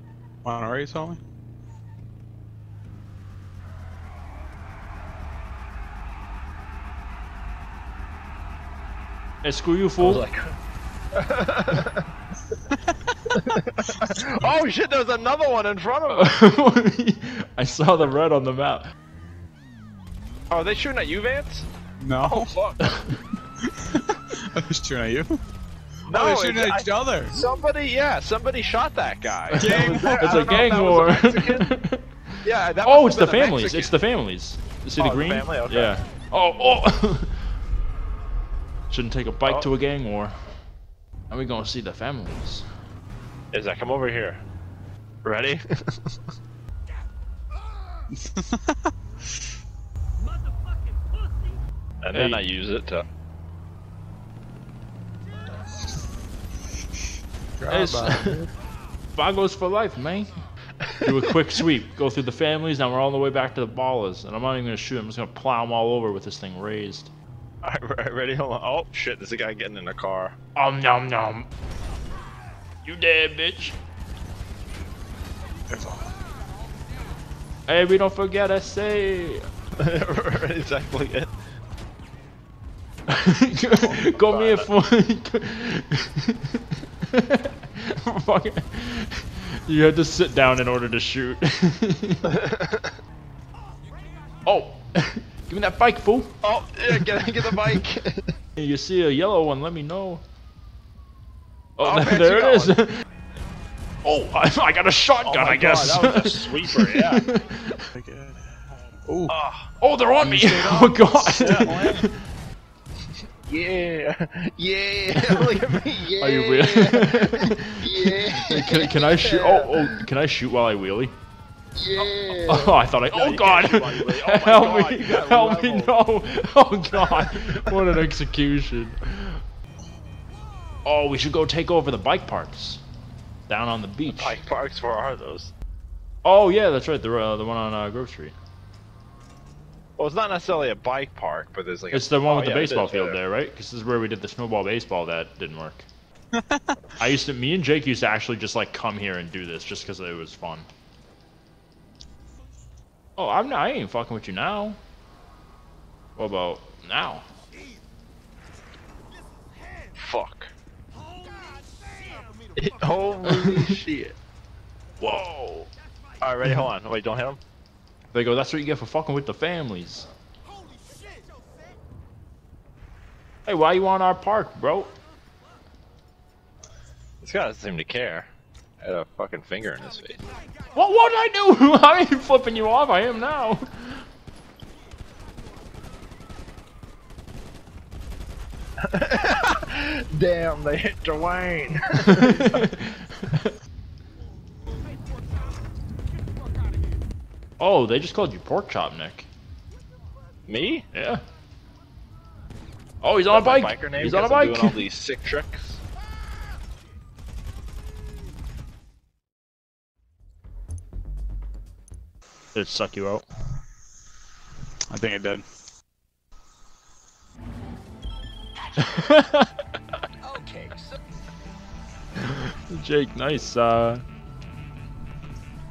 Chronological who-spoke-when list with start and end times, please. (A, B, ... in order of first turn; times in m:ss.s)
0:00.4-0:01.2 A
0:09.4-0:10.2 B
0:10.0-0:10.5 C
0:11.1-0:12.0 C
0:13.3-0:16.4 C
0:16.1-0:18.8 B
0:20.5-0:21.7 C
0:22.0-0:22.5 A
0:22.2-0:22.9 C
0:22.8-0:23.2 B
0:23.6-0:25.4 A
0:26.1-0:31.7 C
0:26.1-0:27.4 A
0:29.5-0:32.0 B
0:29.6-0:31.1 A
0:32.4-0:33.9 C
0:32.8-0:37.4 B
0:35.0-0:36.0 C
0:38.9-0:40.3 B
0:41.3-0:42.6 B
0:43.5-0:44.4 C
0:45.2-0:46.1 C
0:48.1-0:48.9 A
0:52.0-0:53.0 C
0:52.1-0:52.4 B
0:57.6-0:58.5 A
0:57.7-0:58.5 B
0:59.1-1:00.3 B
1:01.0-1:07.1 B
1:07.6-1:10.4 C
1:10.5-1:11.4 B
1:12.8-1:13.8 B
1:15.7-1:16.2 A
1:17.7-1:19.4 B
1:19.8-1:21.3 C
1:23.1-1:32.3 B
1:23.7-1:24.7 C
1:32.3-1:32.9 C
1:34.4-1:36.3 B
1:36.4-1:38.3 C
1:36.9-1:37.8 B
1:38.6-1:40.2 B
1:41.8-1:43.0 B
1:41.8-1:42.8 C
1:44.0-1:47.9 B
1:45.2-1:47.2 C
1:47.9-1:49.3 A
1:49.3-1:49.7 C
1:49.8-1:52.1 B
1:50.2-1:52.0 A
1:51.3-1:52.0 C
1:53.5-2:00.0 C
1:55.2-2:01.1 B
2:01.8-2:05.9 C
2:02.0-2:09.4 B
2:06.9-2:07.8 C
2:10.8-2:12.8 B
2:13.5-2:14.4 B
2:14.0-2:15.5 C
2:16.2-2:18.3 B
2:20.0-2:23.2 C
2:21.9-2:25.8 B
2:26.3-2:26.8 A
2:27.0-2:30.7 B
2:33.2-2:34.8 B
2:36.2-2:37.2 B
2:40.0-2:40.5 C
2:42.5-2:44.2 C
2:43.2-2:43.5 B
2:45.0-2:45.7 B
2:46.2-2:47.4 C
2:48.1-2:50.1 B
2:53.4-2:54.9 B
2:57.2-2:58.3 C
2:58.8-3:00.2 C
3:00.7-3:04.0 B
3:08.8-3:12.6 C
3:12.0-3:13.5 B
3:17.6-3:19.3 B
3:20.5-3:20.8 C
3:20.9-3:21.2 B
3:23.0-3:24.8 B
3:23.3-3:25.8 C
3:32.5-3:33.2 B
3:34.9-3:35.4 A
3:38.8-3:39.5 B
3:40.3-3:40.7 C
3:42.2-3:44.0 B